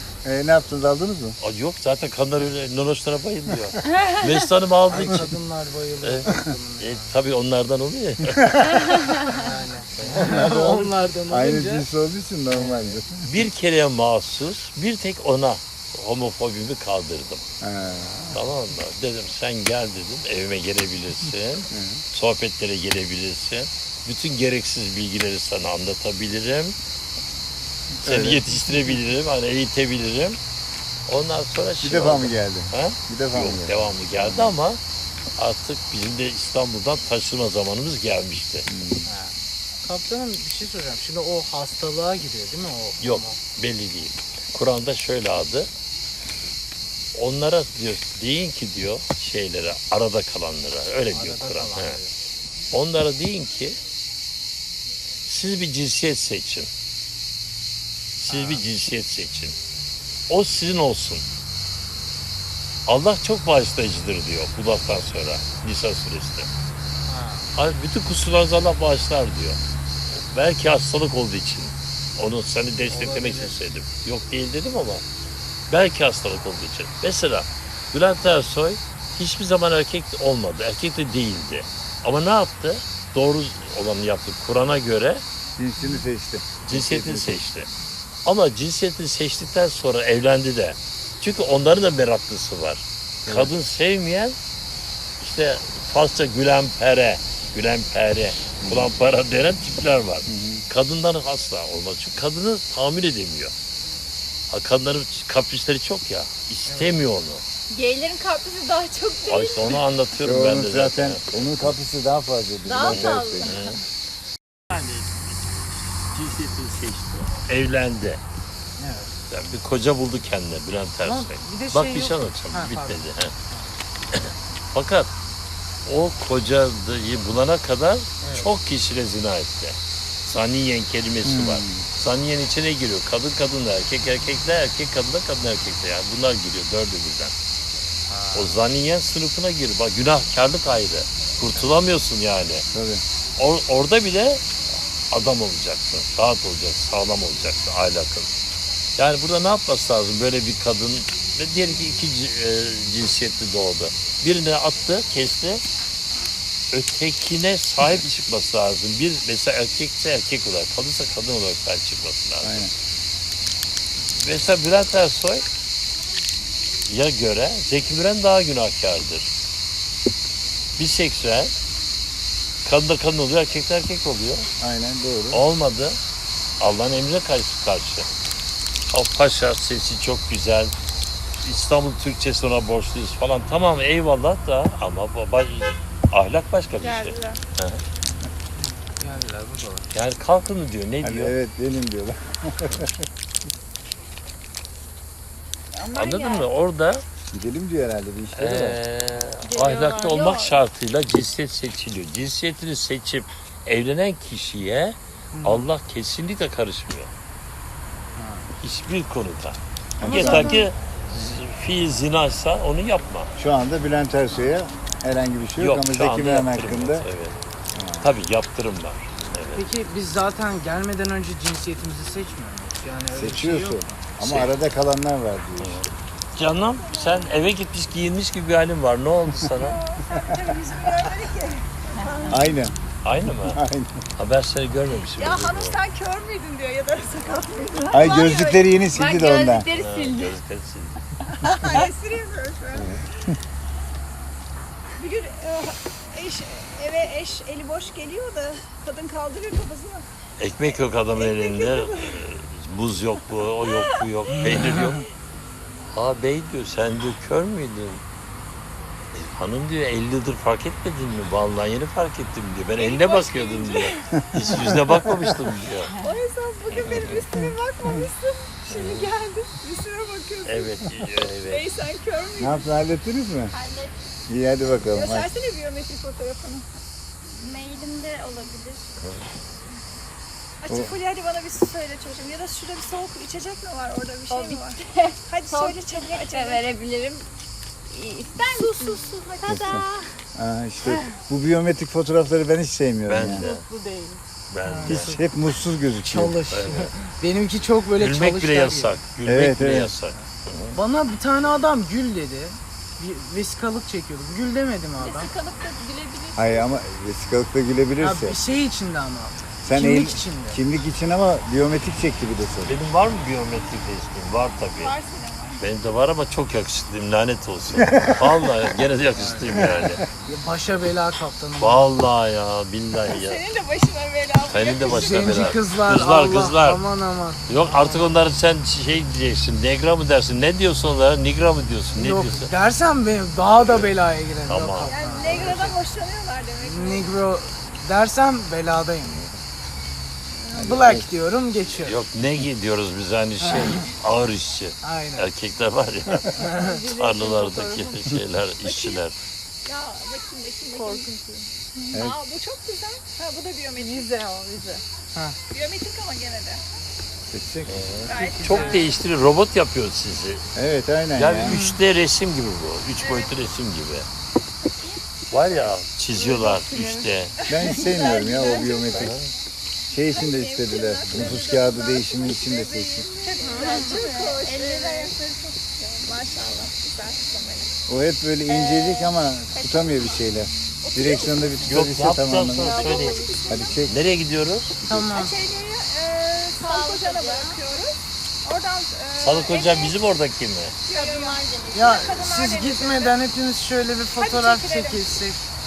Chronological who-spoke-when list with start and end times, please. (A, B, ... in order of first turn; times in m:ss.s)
0:00.2-0:01.4 A
0:01.4-0:05.3 B
0:03.9-0:04.3 C
0:04.9-0:07.1 D
0:06.0-0:08.8 B
0:09.3-0:11.9 D
0:10.0-0:10.3 B
0:10.2-0:13.2 A
0:12.5-0:13.0 D
0:13.2-0:17.5 B
0:17.6-0:18.4 A
0:18.3-0:26.8 B
0:21.7-0:22.0 A
0:28.0-0:28.5 A
0:28.0-0:30.4 B
0:31.1-0:34.8 B
0:31.8-0:34.5 A
0:35.4-0:38.7 B
0:38.7-0:39.1 A
0:39.1-0:43.4 D
0:43.0-0:45.7 B
0:47.1-0:52.0 B
0:51.1-0:52.1 D
0:52.7-0:53.8 B
0:55.3-0:56.7 B
0:58.2-0:59.6 B
0:58.3-0:58.6 D
1:00.3-1:01.2 B
1:02.9-1:06.5 B
1:07.0-1:07.5 D
1:07.6-1:09.6 B
1:10.2-1:15.0 B
1:12.9-1:13.6 D
1:15.7-1:25.2 B
1:25.6-1:27.4 A
1:26.7-1:27.7 B
1:28.2-1:34.4 B
1:33.3-1:33.5 A
1:35.2-1:43.5 B
1:38.6-1:38.9 A
1:40.3-1:40.7 A
1:44.5-1:47.4 B
1:46.7-1:47.0 D
1:47.7-1:49.8 C
1:49.3-1:51.7 B
1:50.2-1:53.6 A
1:52.7-1:53.8 C
1:52.9-1:53.8 B
1:54.7-1:55.2 B
1:56.0-1:58.2 B
1:58.8-1:59.2 D
1:59.3-2:03.3 B
2:01.0-2:03.7 D
2:04.1-2:05.1 B
2:05.9-2:17.3 B
2:08.2-2:08.5 D
2:11.2-2:11.9 A
2:18.1-2:18.6 D
2:18.3-2:22.6 B
2:22.7-2:23.0 A
2:23.4-2:24.4 B
2:25.1-2:28.3 B
2:29.0-2:35.6 B
2:36.7-2:42.7 B
2:42.4-2:42.7 A
2:44.1-2:45.5 B
2:46.9-2:49.3 B
2:50.8-2:51.5 B
2:52.6-2:54.5 B
2:54.6-2:55.4 A
2:55.3-2:56.0 B
2:56.6-2:58.1 B
2:58.9-3:00.7 B
3:01.4-3:07.8 B
3:06.8-3:07.4 C
3:08.6-3:09.9 D
3:09.9-3:11.4 B
3:11.0-3:13.0 A
3:15.7-3:16.5 C
3:16.0-3:17.0 B
3:17.3-3:18.8 A
3:18.4-3:27.1 B
3:19.4-3:20.6 C
3:25.3-3:25.7 D
3:28.2-3:28.5 D
3:28.6-3:33.3 B
3:30.0-3:30.6 A
3:30.0-3:30.7 D
3:33.4-3:37.1 A
3:34.3-3:34.6 D
3:35.6-3:37.4 B
3:37.8-3:38.1 A
3:38.0-3:39.7 B
3:39.5-3:43.9 D
3:43.1-3:45.9 A
3:44.2-3:44.5 B
3:45.6-3:49.8 B
3:46.4-3:47.5 E
3:49.6-3:52.5 E
3:52.0-3:52.4 C
3:52.3-3:52.8 A
3:53.0-3:53.6 B
3:53.3-3:54.0 A
3:54.2-3:55.8 B
3:55.0-3:58.5 E
3:57.8-4:00.4 C
3:57.9-3:59.7 A
3:59.7-4:01.0 B
4:01.3-4:03.0 E
4:01.4-4:01.9 C
4:05.0-4:10.0 E
4:10.4-4:15.0 B
4:11.1-4:12.2 E
4:14.3-4:15.0 D
4:15.9-4:18.0 B
4:19.2-4:25.9 B
4:22.7-4:24.0 E
4:24.2-4:25.3 A
4:25.9-4:26.2 C
4:26.0-4:32.6 E
4:26.7-4:27.2 B
4:28.7-4:29.1 B
4:30.4-4:31.7 B
4:32.4-4:33.6 A
4:33.5-4:33.9 C
4:34.3-4:35.3 A
4:34.9-4:36.7 E
4:37.4-4:38.9 C
4:40.6-4:46.6 E
4:44.3-4:47.3 C
4:47.9-4:50.1 C
4:48.4-4:49.1 E
4:49.5-4:53.5 A
4:53.1-4:53.7 B
4:53.4-4:55.3 D
4:54.5-4:55.1 B
4:54.9-4:56.4 A
4:56.0-4:59.0 D
4:56.5-4:57.0 B
4:58.0-5:00.8 B
4:59.2-4:59.9 A
5:00.7-5:05.3 D
5:05.0-5:06.8 C
5:06.4-5:08.4 A
5:08.0-5:10.6 D
5:09.6-5:12.8 A
5:12.6-5:15.0 B
5:14.8-5:15.6 C
5:15.6-5:20.0 B
5:17.8-5:18.6 A
5:19.1-5:19.7 D
5:19.6-5:20.0 A
5:20.2-5:21.9 D
5:21.6-5:23.4 B
5:23.1-5:25.5 E
5:24.4-5:26.8 B
5:24.8-5:28.2 D
5:27.5-5:32.5 B
5:32.0-5:35.8 D
5:33.6-5:33.9 B
5:34.5-5:35.6 B
5:34.8-5:37.1 E
5:36.6-5:39.2 D
5:39.0-5:39.3 B
5:40.5-5:41.1 A
5:40.5-5:42.0 D
5:41.7-5:46.4 B
5:43.4-5:43.9 D
5:44.8-5:45.3 D
5:46.4-5:46.8 D
5:46.6-5:48.1 C
5:46.9-5:49.2 B
5:48.6-5:49.0 E
5:49.6-5:51.1 E
5:50.8-5:51.1 C
5:51.9-5:54.1 E
5:53.8-5:54.8 C
5:55.5-5:56.6 E
5:57.3-5:57.8 A
5:57.7-6:00.5 B
5:58.1-5:59.0 E
5:58.1-5:59.0 D
6:00.6-6:01.6 A
6:01.2-6:04.1 B
6:01.5-6:01.8 D
6:03.0-6:03.4 E
6:05.3-6:07.4 B
6:06.3-6:07.0 C
6:07.4-6:09.2 E
6:07.5-6:09.2 A
6:08.9-6:09.3 B
6:09.9-6:13.1 A
6:10.1-6:17.7 E
6:13.3-6:15.2 C
6:17.9-6:22.9 A
6:18.5-6:19.1 C
6:19.5-6:20.2 E
6:20.8-6:21.6 E
6:21.6-6:23.3 B
6:22.6-6:23.8 C
6:22.6-6:23.8 E
6:23.5-6:24.0 A
6:23.8-6:24.8 B
6:24.8-6:25.4 D
6:25.1-6:30.0 E
6:26.6-6:27.6 C
6:29.2-6:30.8 B
6:30.9-6:33.2 E
6:30.9-6:32.1 C
6:31.7-6:35.4 D
6:34.2-6:35.2 E